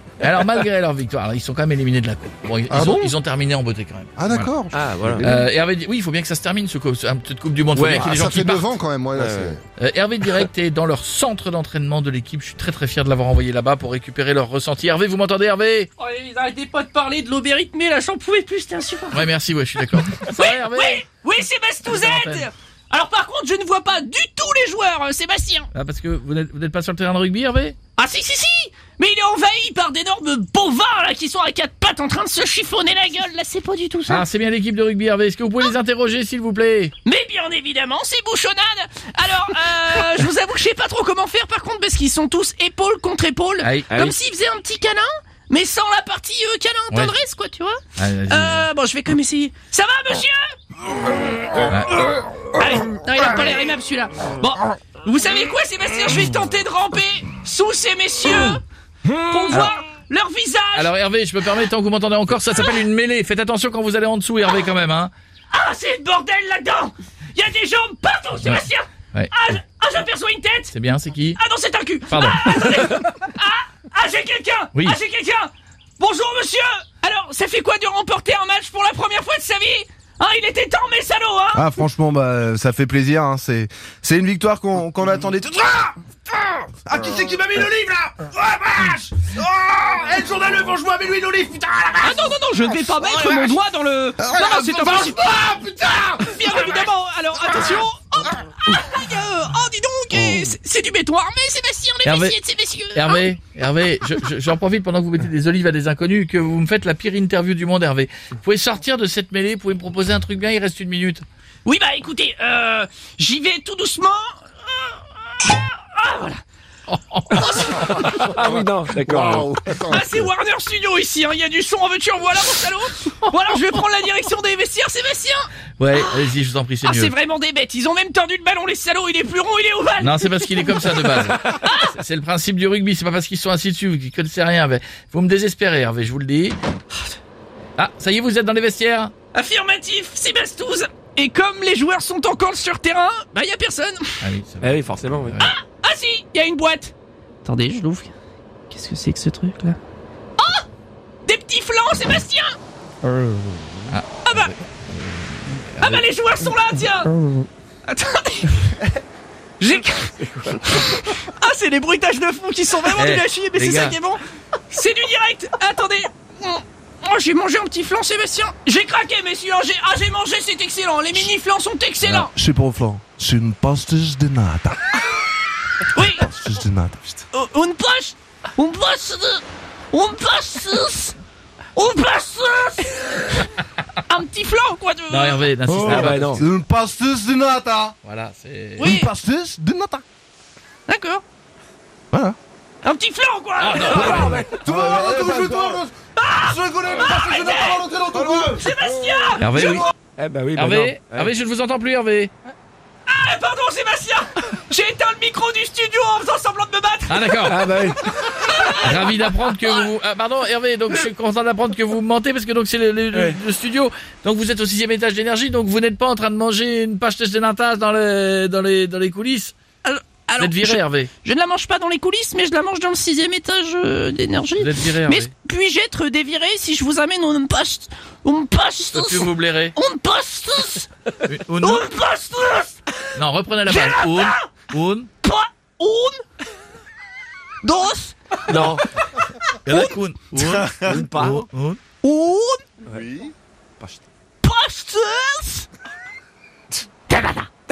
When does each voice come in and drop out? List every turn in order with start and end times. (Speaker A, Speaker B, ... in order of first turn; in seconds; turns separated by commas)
Speaker A: 0.2-4.5, Speaker B: 2.7-3.1, Speaker C: 4.2-4.8, Speaker D: 4.7-5.4, Speaker A: 5.2-8.8, Speaker D: 7.7-8.2, Speaker B: 7.9-9.6, Speaker D: 9.2-9.5, Speaker A: 9.8-15.9, Speaker E: 16.0-19.3, Speaker A: 19.1-21.0, Speaker E: 20.0-25.7, Speaker A: 21.9-22.5, Speaker A: 25.7-27.8, Speaker E: 28.0-34.2, Speaker A: 34.1-36.9, Speaker E: 37.0-50.5, Speaker A: 43.6-44.1, Speaker D: 43.9-44.2, Speaker A: 46.9-47.1, Speaker A: 48.0-48.7, Speaker A: 51.6-52.0, Speaker E: 52.5-60.9, Speaker A: 59.5-59.8, Speaker A: 60.7-65.1, Speaker E: 65.5-70.7, Speaker A: 68.4-69.3, Speaker A: 70.7-71.4, Speaker E: 71.4-81.7, Speaker A: 72.1-72.4, Speaker C: 81.5-87.6, Speaker E: 92.0-95.4, Speaker B: 94.7-96.1, Speaker E: 96.2-103.2, Speaker A: 102.0-102.3, Speaker A: 102.9-111.2, Speaker E: 111.6-116.4, Speaker A: 116.9-118.1, Speaker E: 117.3-119.2, Speaker D: 118.2-119.5, Speaker B: 118.3-120.3, Speaker E: 119.8-126.1, Speaker A: 125.8-127.1, Speaker E: 126.8-131.9, Speaker A: 130.0-136.6, Speaker A: 137.8-139.1, Speaker E: 139.3-144.2, Speaker A: 144.2-145.5, Speaker D: 144.6-145.4, Speaker E: 145.4-146.9, Speaker E: 147.4-148.1, Speaker E: 148.7-149.8, Speaker E: 150.4-150.6, Speaker E: 151.2-152.6, Speaker A: 153.9-156.0, Speaker E: 155.8-157.1, Speaker E: 157.8-158.8, Speaker E: 159.6-172.3, Speaker A: 162.9-164.0, Speaker A: 172.0-172.3, Speaker C: 172.3-174.9, Speaker E: 175.9-176.3, Speaker C: 175.9-177.2, Speaker E: 177.3-181.2, Speaker E: 181.8-183.5, Speaker E: 184.1-186.3, Speaker A: 185.1-186.5, Speaker C: 185.7-187.9, Speaker D: 185.9-186.4, Speaker A: 188.0-188.9, Speaker E: 188.8-189.1, Speaker C: 188.8-190.0, Speaker E: 190.9-191.2, Speaker E: 192.8-194.5, Speaker A: 193.6-194.4, Speaker C: 193.9-198.6, Speaker B: 194.0-195.9, Speaker D: 194.1-194.6, Speaker E: 196.2-199.9, Speaker B: 196.9-198.5, Speaker A: 199.4-199.9, Speaker D: 200.2-201.3, Speaker A: 200.5-202.3, Speaker E: 203.1-209.8, Speaker A: 207.1-207.7, Speaker D: 207.4-208.0, Speaker A: 208.7-219.6, Speaker E: 219.8-230.9, Speaker A: 220.4-221.1, Speaker A: 224.6-225.3, Speaker A: 228.9-229.7, Speaker A: 231.2-231.8, Speaker E: 231.6-232.8, Speaker A: 233.1-235.1, Speaker E: 233.7-234.4, Speaker E: 235.2-236.2, Speaker E: 237.6-239.3, Speaker D: 238.5-238.8, Speaker A: 239.6-241.8, Speaker D: 240.8-241.4, Speaker E: 241.0-241.4, Speaker E: 242.0-242.6, Speaker B: 242.9-243.3, Speaker E: 244.4-245.7, Speaker E: 247.1-247.5